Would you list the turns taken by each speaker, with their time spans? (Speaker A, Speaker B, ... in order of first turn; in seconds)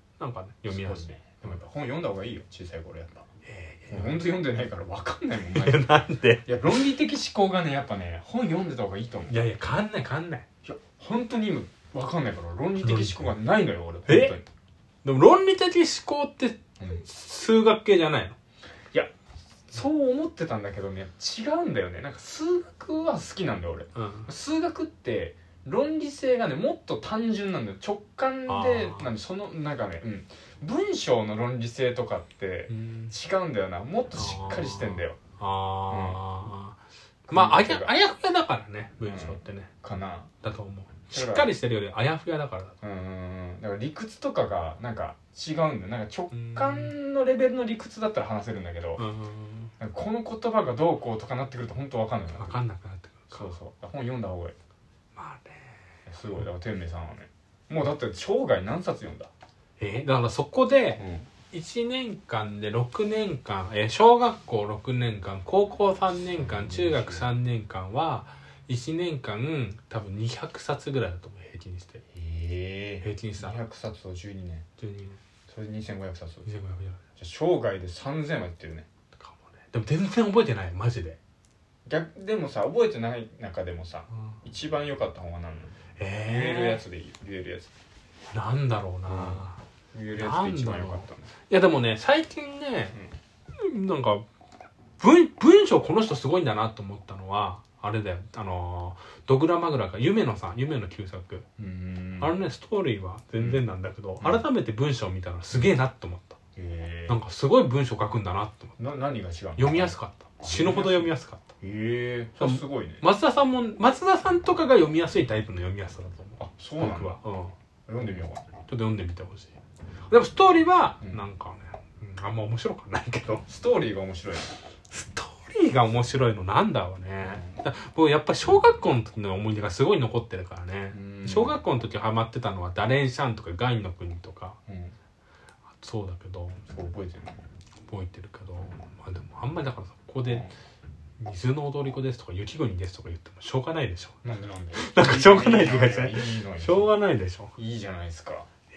Speaker A: 0.2-1.6, 3.5-4.3, 5.5-6.5, 9.3-10.4, 12.8-13.3, 14.1-14.4, 15.0-18.4, 24.0-24.3, 28.5-29.1, 32.7-33.1, 34.1-36.8, 37.3-39.7, 40.4-42.8, 46.3-47.0, 49.0-49.7, 52.4-53.5, 55.2-55.8, 59.8-72.0, 73.0-73.6, 74.8-75.2, 76.5-77.0, 79.2-81.2, 86.0-86.8, 88.3-89.6, 90.1-93.0, 93.5-94.2, 95.0-101.5, 102.2-106.4, 107.1-108.7, 109.6-111.5, 112.4-117.5, 118.7-119.5, 120.1-123.5, 124.9-134.6, 135.8-136.6, 137.9-140.5, 141.2-144.2, 144.7-147.5
Speaker B: 0.7-3.3, 3.9-5.9, 6.5-9.4, 10.6-14.4, 19.7-35.2, 35.9-36.4, 37.3-37.9, 39.0-40.3, 41.1-41.5, 42.8-49.0, 49.8-52.6, 53.3-54.5, 56.1-59.3, 61.0-61.3, 66.4-67.3, 72.1-74.7, 75.5-76.5, 77.2-78.9, 81.9-87.7, 89.1-91.3, 101.6-102.3, 103.4-103.7, 104.2-104.5, 106.6-107.2, 108.8-113.0, 116.4-117.2, 117.9-118.5, 123.5-124.6, 127.2-127.6, 130.9-131.6, 134.7-134.9, 136.7-137.4, 140.2-140.5, 144.2-146.9, 147.6-148.5